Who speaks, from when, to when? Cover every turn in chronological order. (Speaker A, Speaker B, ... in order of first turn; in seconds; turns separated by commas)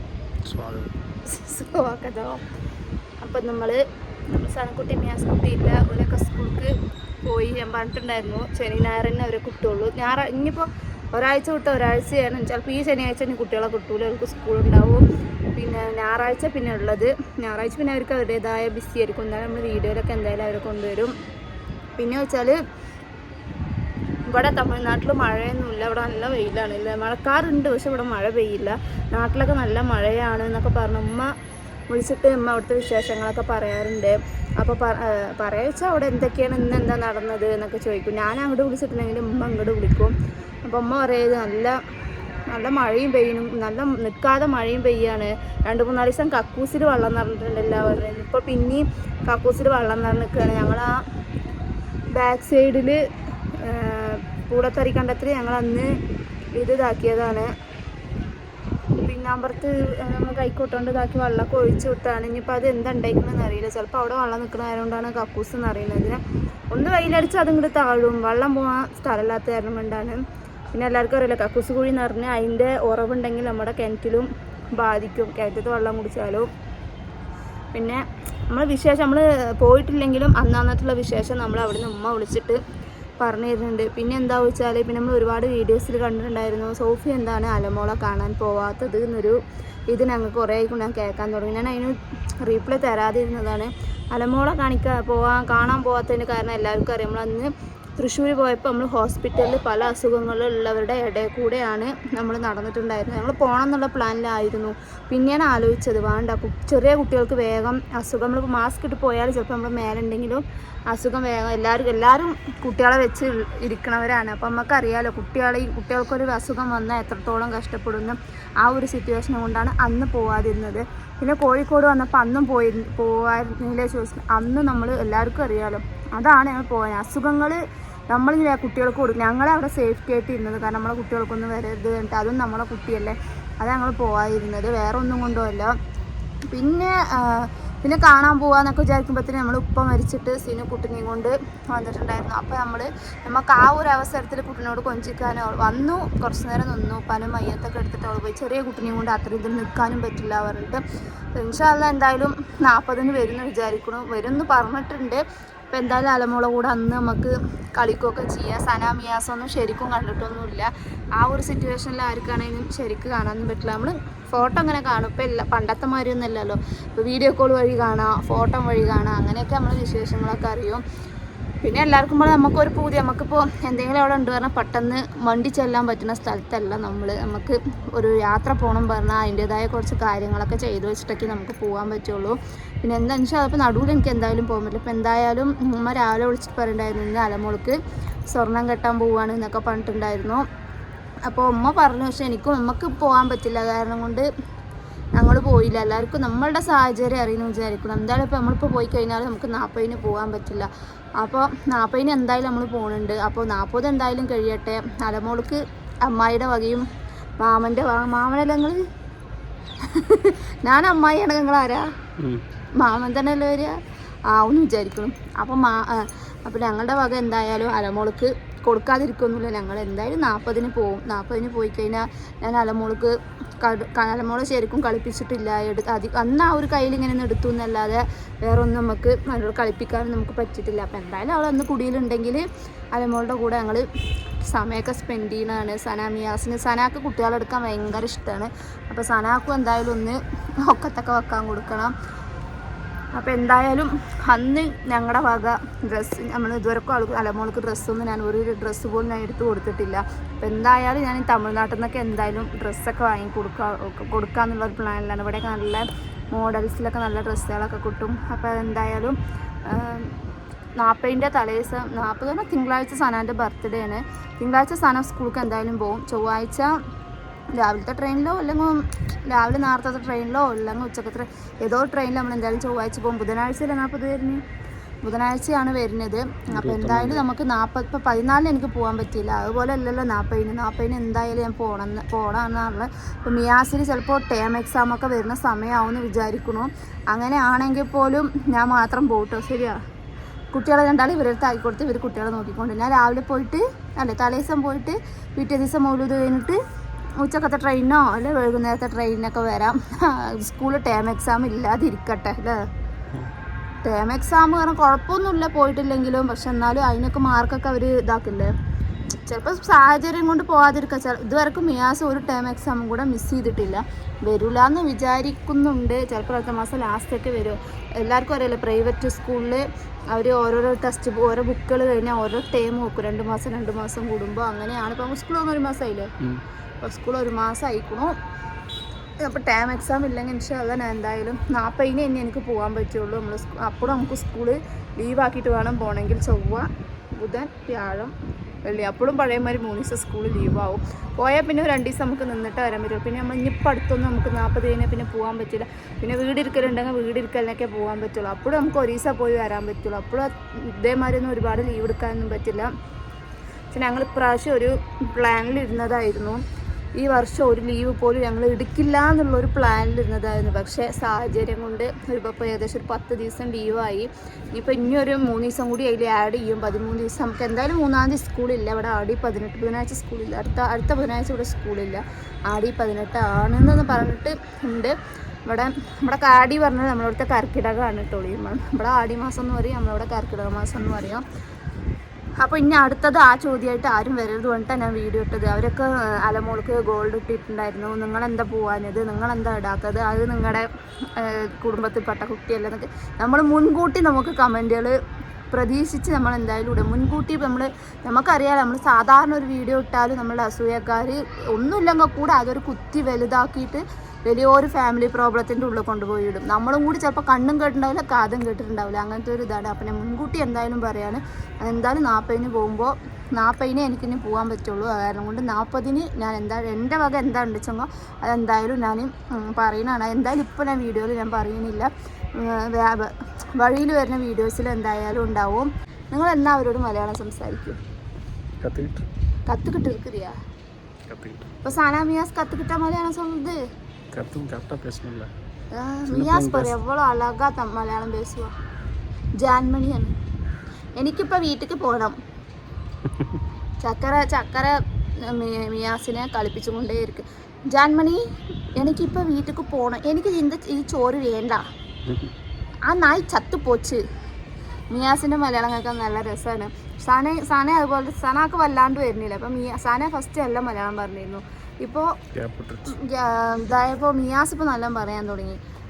Speaker A: 0.5-0.9, Speaker B: 1.3-2.4, Speaker B: 3.2-3.8, Speaker B: 4.3-6.7, Speaker B: 7.2-15.0, Speaker B: 15.6-21.1, Speaker B: 22.0-22.6, Speaker B: 24.3-31.3, Speaker B: 31.9-40.1, Speaker B: 40.6-41.8, Speaker B: 42.5-51.0, Speaker B: 52.1-53.0, Speaker B: 53.6-55.9, Speaker B: 56.6-57.5, Speaker B: 59.0-66.2, Speaker B: 66.7-70.2, Speaker B: 70.7-74.3, Speaker B: 74.8-76.5, Speaker B: 77.7-82.6, Speaker B: 83.2-89.4, Speaker B: 89.9-127.6, Speaker B: 128.1-135.7, Speaker B: 136.5-150.8, Speaker B: 151.4-170.8, Speaker B: 171.6-187.8, Speaker B: 188.3-190.4, Speaker B: 191.3-194.3, Speaker B: 195.2-206.8, Speaker B: 207.4-208.8, Speaker B: 209.8-211.9, Speaker B: 212.8-213.7, Speaker B: 214.3-233.8, Speaker B: 234.5-241.9, Speaker B: 243.2-260.1, Speaker B: 260.8-266.7, Speaker B: 267.6-274.4, Speaker B: 275.0-289.8, Speaker A: 276.5-277.3, Speaker B: 290.5-296.6, Speaker B: 297.2-302.6, Speaker B: 303.8-308.5, Speaker B: 309.2-326.1, Speaker B: 326.8-328.1, Speaker B: 329.2-336.7, Speaker B: 337.2-338.1, Speaker B: 338.6-352.7, Speaker B: 353.7-356.4, Speaker B: 357.0-374.9, Speaker B: 375.5-381.2, Speaker B: 382.4-394.9, Speaker B: 395.5-427.8, Speaker A: 428.6-429.1, Speaker B: 429.5-430.4, Speaker A: 431.1-431.6, Speaker B: 431.6-433.6, Speaker A: 434.1-435.3, Speaker B: 435.7-438.5, Speaker A: 436.1-436.8, Speaker B: 439.4-440.1, Speaker B: 441.0-442.2, Speaker A: 443.1-443.4, Speaker B: 443.8-448.2, Speaker B: 448.8-451.6, Speaker A: 452.1-452.3, Speaker B: 452.9-454.0, Speaker B: 454.9-462.1, Speaker A: 462.3-462.9, Speaker B: 462.9-465.6